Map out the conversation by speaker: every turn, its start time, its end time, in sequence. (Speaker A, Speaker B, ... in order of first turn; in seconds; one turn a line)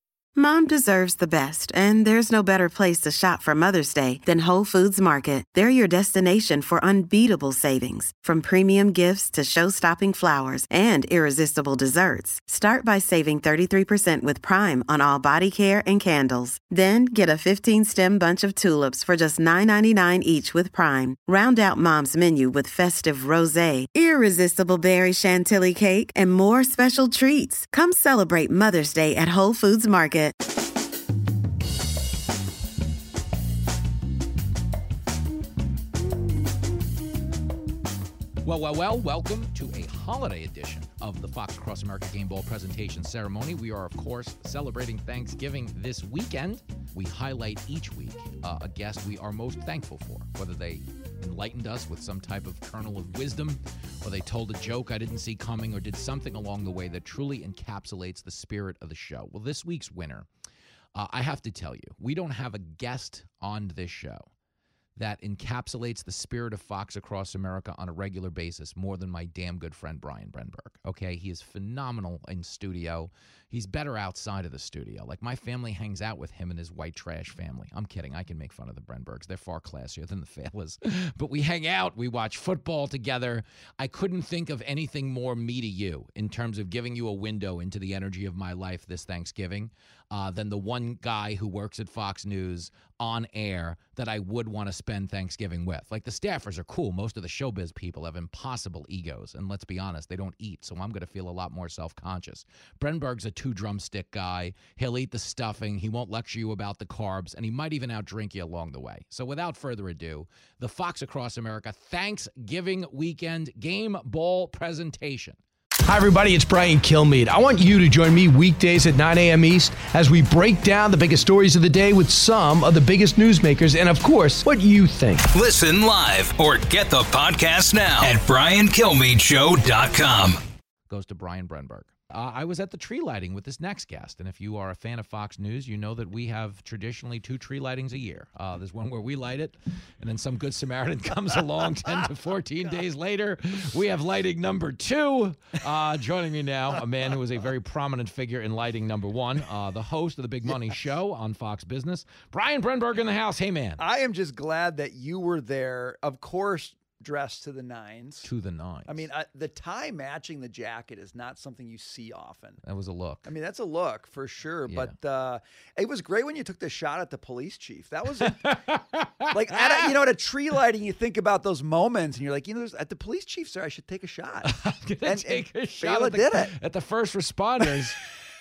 Speaker A: 0.3-30.3
Speaker B: 38.4-60.3
Speaker B: 60.9-64.3
Speaker B: 65.0-115.4
Speaker C: 115.8-125.4
Speaker D: 125.3-130.4
Speaker B: 130.9-153.8
Speaker E: 153.8-158.3
Speaker B: 158.2-159.1
Speaker E: 158.8-162.6
Speaker B: 162.6-163.3
Speaker E: 163.2-168.5
Speaker B: 164.7-164.9
Speaker B: 168.2-169.9
Speaker E: 169.3-174.5
Speaker B: 174.4-178.0
Speaker E: 175.0-176.5